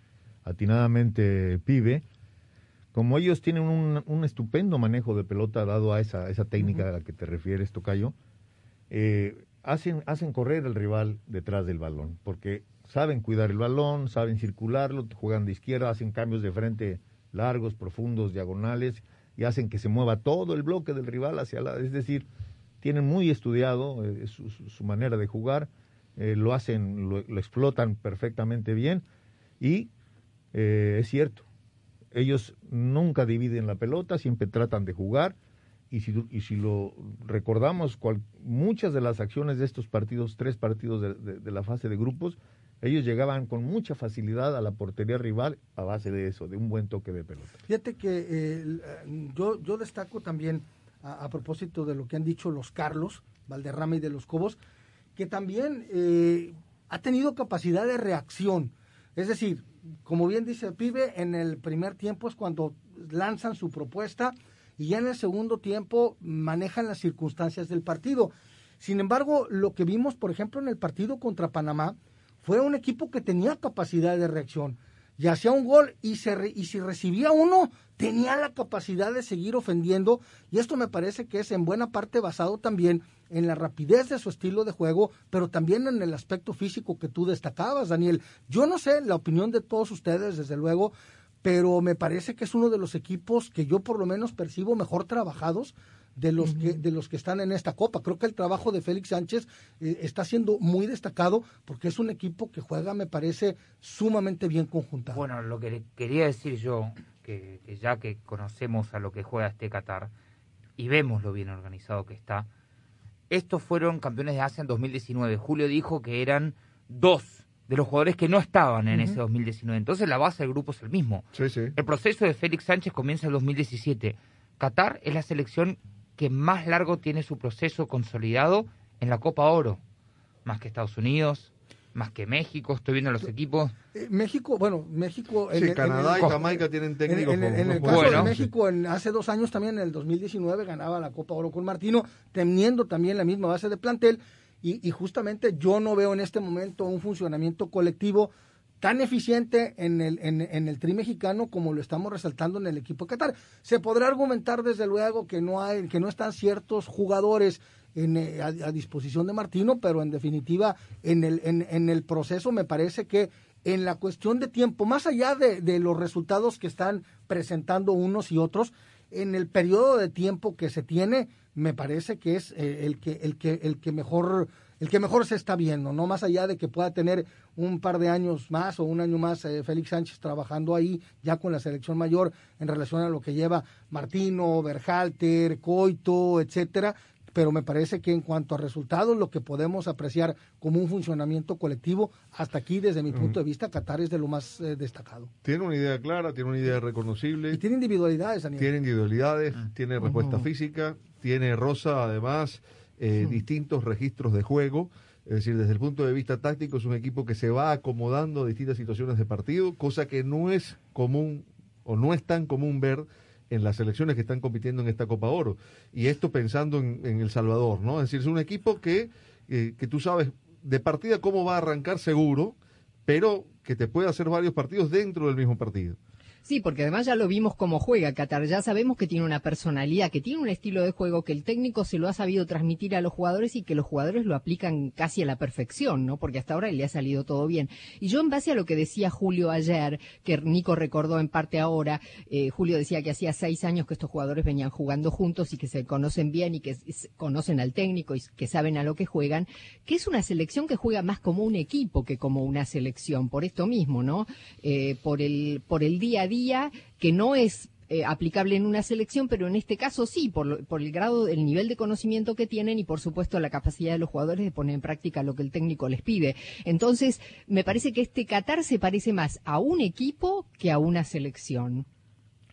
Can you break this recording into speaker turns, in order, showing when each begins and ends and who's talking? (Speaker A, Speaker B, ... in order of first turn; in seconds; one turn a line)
Speaker A: 0.5-2.0
Speaker A: 2.9-8.2
Speaker A: 8.9-22.3
Speaker A: 22.8-29.1
Speaker A: 29.6-29.9
Speaker A: 30.5-31.5
Speaker A: 32.1-35.4
Speaker A: 35.9-47.6
Speaker B: 47.7-54.6
Speaker B: 55.2-90.9
Speaker B: 91.4-105.2
Speaker C: 96.4-96.8
Speaker D: 105.1-110.1
Speaker D: 110.8-112.5
Speaker D: 113.3-129.8
Speaker E: 121.3-121.7
Speaker D: 130.4-133.7
Speaker B: 133.9-195.3
Speaker E: 135.5-138.5
Speaker D: 137.8-138.3
Speaker E: 193.1-193.4
Speaker E: 195.4-197.6
Speaker B: 197.5-198.7
Speaker E: 198.6-226.0
Speaker C: 226.4-271.9